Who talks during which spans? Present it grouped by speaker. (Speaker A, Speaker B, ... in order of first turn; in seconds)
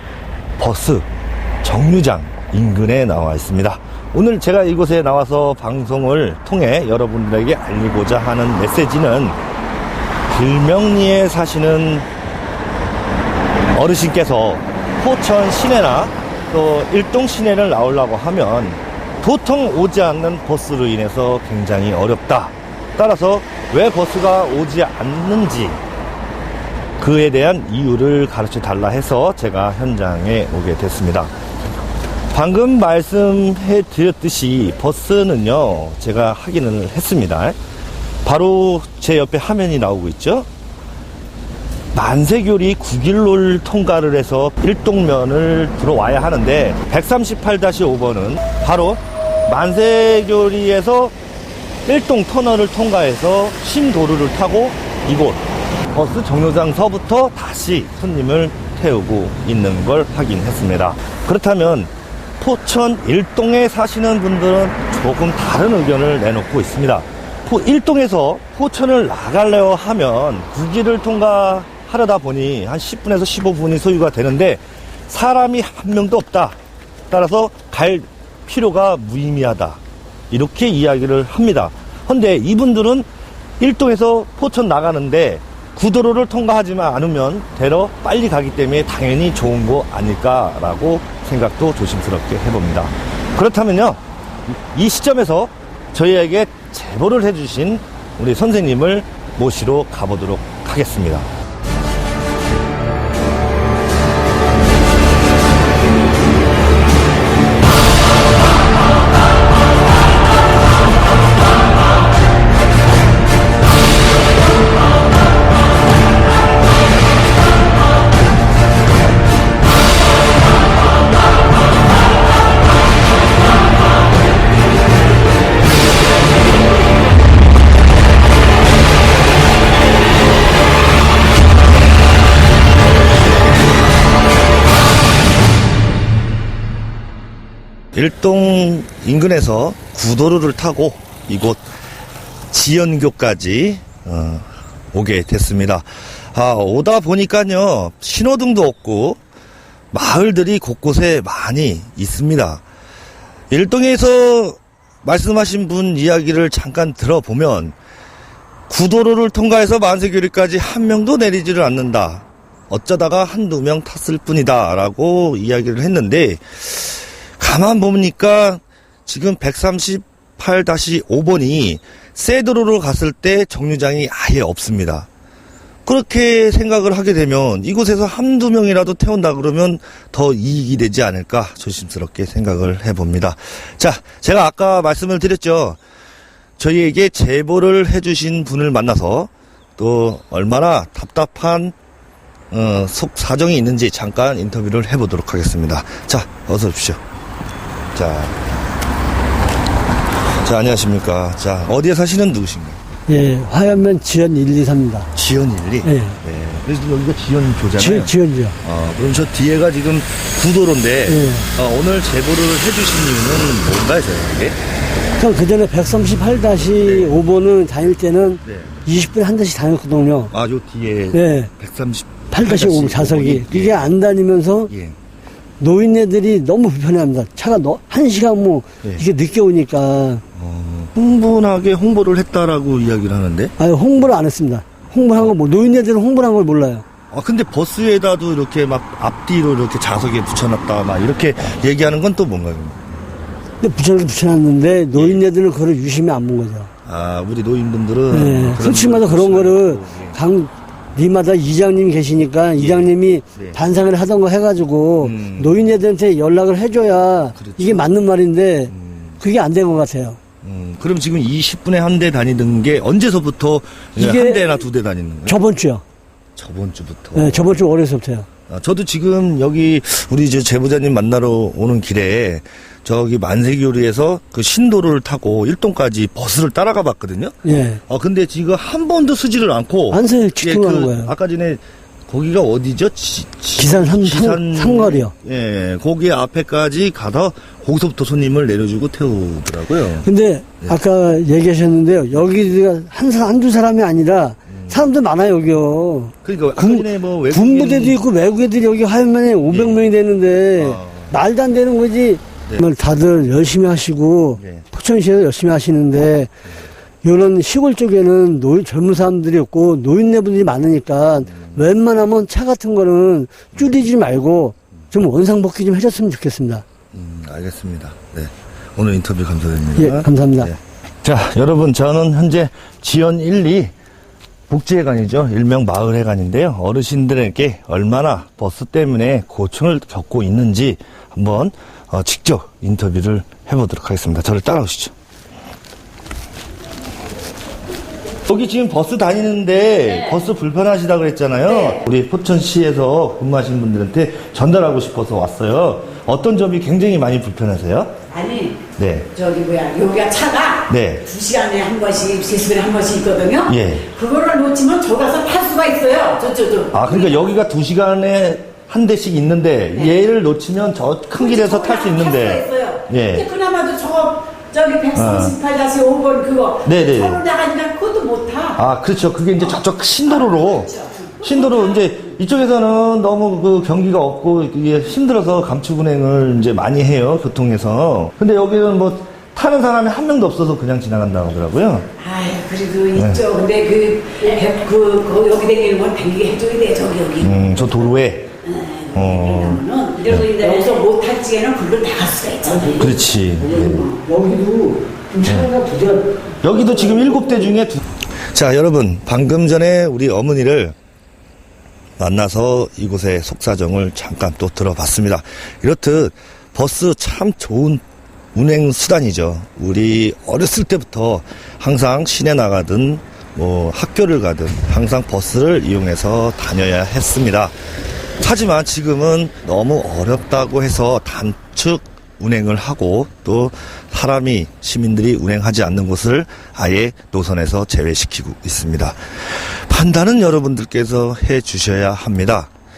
Speaker A: 0.6-1.1, 1.6-9.4, 10.3-12.1, 13.7-25.8, 27.0-31.3, 32.3-37.6, 38.2-40.5, 41.9-51.1, 51.9-76.6, 77.1-83.1, 83.6-101.3, 137.9-141.7, 142.5-149.2, 149.9-152.7, 153.5-157.8, 158.7-175.1, 175.8-185.8, 186.6-191.8, 192.5-197.0, 197.9-198.4, 200.4-202.8, 205.1-214.6, 216.8-217.2, 218.4-218.8, 220.3-223.9, 224.7-225.0, 230.3-233.5, 237.1-242.9, 244.9-245.2, 246.9-250.2, 252.6-253.6, 255.0-255.7, 257.4-257.9, 258.7-259.2, 260.4-265.4, 266.4-267.6, 268.5-290.1, 294.5-294.9, 296.2-298.0, 299.5-299.9, 300.6-301.2, 304.4-304.7, 311.3-311.6, 316.9-323.7, 324.5-334.9, 338.2-347.9, 348.8-349.1, 350.7-351.1, 353.5-353.9, 356.7-363.3, 364.9-365.4, 366.6-367.2, 368.6-381.9, 382.9-383.2, 387.2-388.3, 388.9-390.3, 392.8-393.9, 395.2-395.5, 396.4-400.8, 402.0-417.6, 418.2-432.5
Speaker B: 203.1-205.1, 205.8-206.2, 207.8-208.6, 211.1-211.5, 215.2-220.3, 221.1-221.5, 222.3-224.7, 225.6-230.2, 233.6-236.8, 243.6-246.7, 248.1-260.2, 264.0-264.4, 265.3-265.8, 267.1-268.3, 277.4-277.8, 279.9-281.1, 283.6-285.1, 290.0-306.3, 307.0-316.6, 319.8-320.5, 390.3-390.8, 392.6-397.5
Speaker C: 341.5-341.8, 348.1-357.4, 361.1-368.6, 369.4-372.1, 382.0-387.9, 388.4-393.0